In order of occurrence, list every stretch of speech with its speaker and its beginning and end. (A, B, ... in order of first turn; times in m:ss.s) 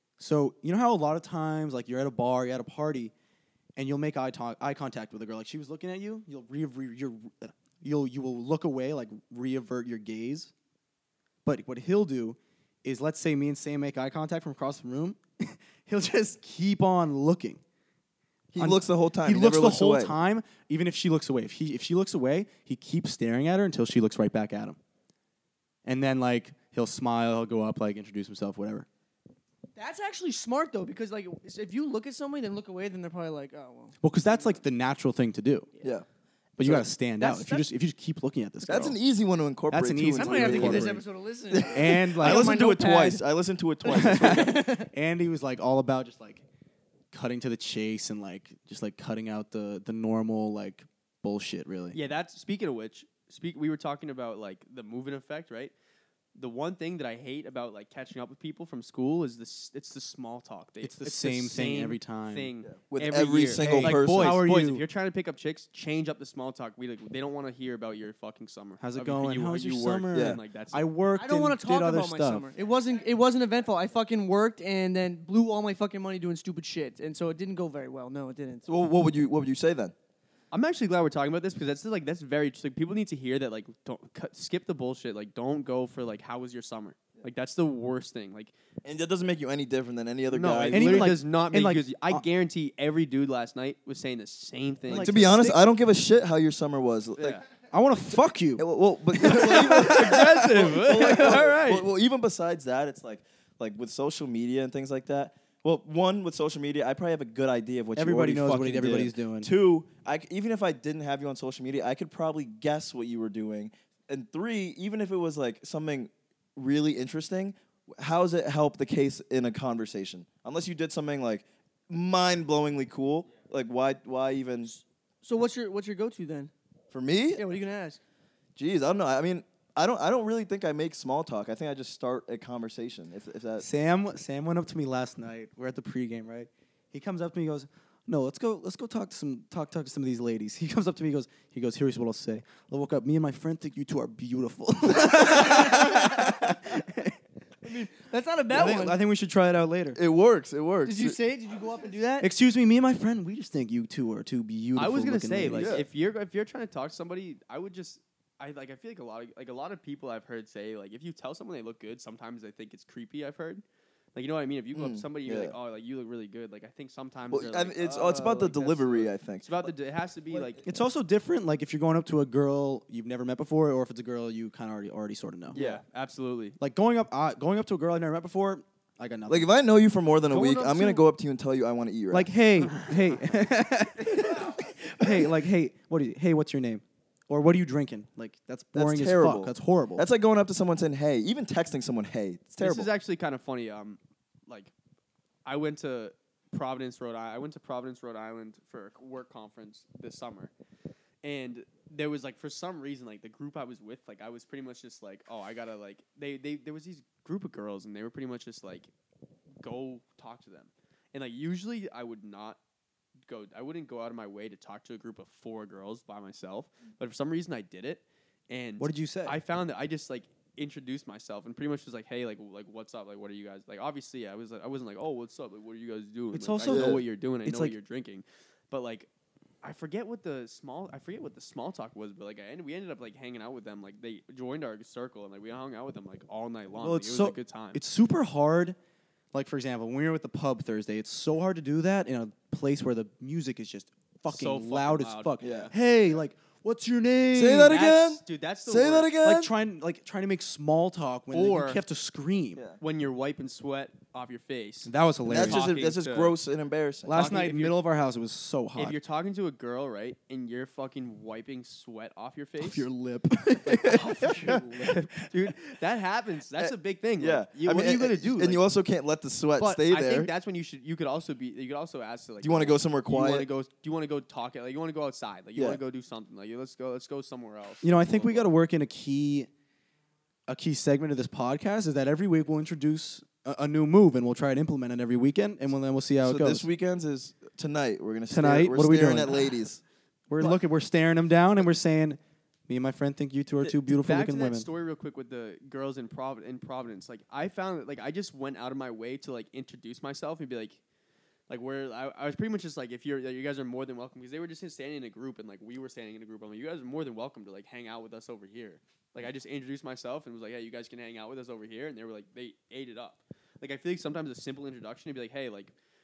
0:00.2-0:03.1 A
0:03.8-0:10.5 A
0:11.4-0:17.6 A
0:18.5-0:20.1 B
0:18.6-0:24.8 A
0:25.8-0:28.9 A
0:29.8-0:34.0 C
0:34.0-0:35.7 A
0:36.6-0:39.0 A
0:36.6-0:36.9 B
0:37.2-0:37.7 C
0:38.7-0:41.0 B
0:39.7-0:41.0 A
0:40.2-0:43.2 C
0:41.5-0:44.6 B
0:41.7-0:42.5 A
0:43.8-0:44.9 C
0:43.9-0:46.4 A
0:47.1-0:52.0 A
0:51.9-0:55.7 D
0:56.4-1:10.9 D
1:00.8-1:02.5 A
1:02.7-1:04.4 B
1:03.6-1:04.8 A
1:08.8-1:12.5 A
1:10.1-1:10.4 B
1:11.2-1:18.7 C
1:18.7-1:19.9 B
1:20.5-1:28.5 D
1:28.8-1:31.2 B
1:30.3-1:35.4 D
1:30.7-1:32.2 A
1:34.9-1:35.6 A
1:34.9-1:37.4 B
1:37.2-1:37.4 D
1:37.7-1:40.8 A
1:38.6-2:04.7 B
1:39.2-1:41.9 D
1:48.0-1:49.5 A
2:04.7-2:06.5 C
2:06.9-2:07.4 B
2:07.4-2:08.0 C
2:08.6-2:13.7 B
2:13.6-2:27.2 A
2:25.3-2:26.1 C
2:27.6-2:29.0 C
2:28.5-2:30.0 A
2:30.0-2:31.2 B
2:30.8-2:32.3 C
2:32.2-2:35.8 A
2:34.8-2:43.6 D
2:35.5-2:35.9 B
2:44.2-2:50.6 D
2:44.7-2:45.6 B
2:47.3-2:49.7 B
2:50.3-2:50.6 B
2:50.6-2:55.6 A
2:55.5-2:55.8 B
2:55.5-2:56.6 D
2:56.6-2:59.5 A
2:59.3-3:02.4 B
3:00.3-3:01.0 C
3:02.1-3:10.0 A
3:08.8-3:12.9 B
3:12.6-3:14.7 D
3:15.4-3:20.5 D
3:21.2-3:28.9 D
3:29.6-3:32.6 D
3:33.3-3:49.1 D
3:38.8-3:39.4 A
3:46.3-3:47.8 A
3:46.6-3:47.0 B
3:49.6-3:57.8 D
3:56.8-3:58.8 A
3:59.3-4:07.9 A
4:04.3-4:05.7 D
4:05.4-4:05.7 B
4:07.3-4:09.5 B
4:07.6-4:09.2 D
4:09.2-4:12.6 A
4:11.3-4:11.8 D
4:12.8-4:16.4 D
4:14.8-4:15.7 A
4:15.3-4:17.2 B
4:17.0-4:19.0 A
4:17.1-4:17.8 D
4:18.8-4:22.8 D
4:22.6-4:24.7 A
4:23.7-4:28.6 D
4:26.6-4:30.3 B
4:29.6-4:38.5 D
4:32.4-4:33.5 B
4:35.6-4:35.8 B
4:37.8-4:39.5 A
4:40.5-4:46.6 A
4:46.2-4:49.8 B
4:48.3-4:49.5 A
4:50.3-4:54.7 A
4:53.6-5:00.8 D
5:01.5-5:15.7 D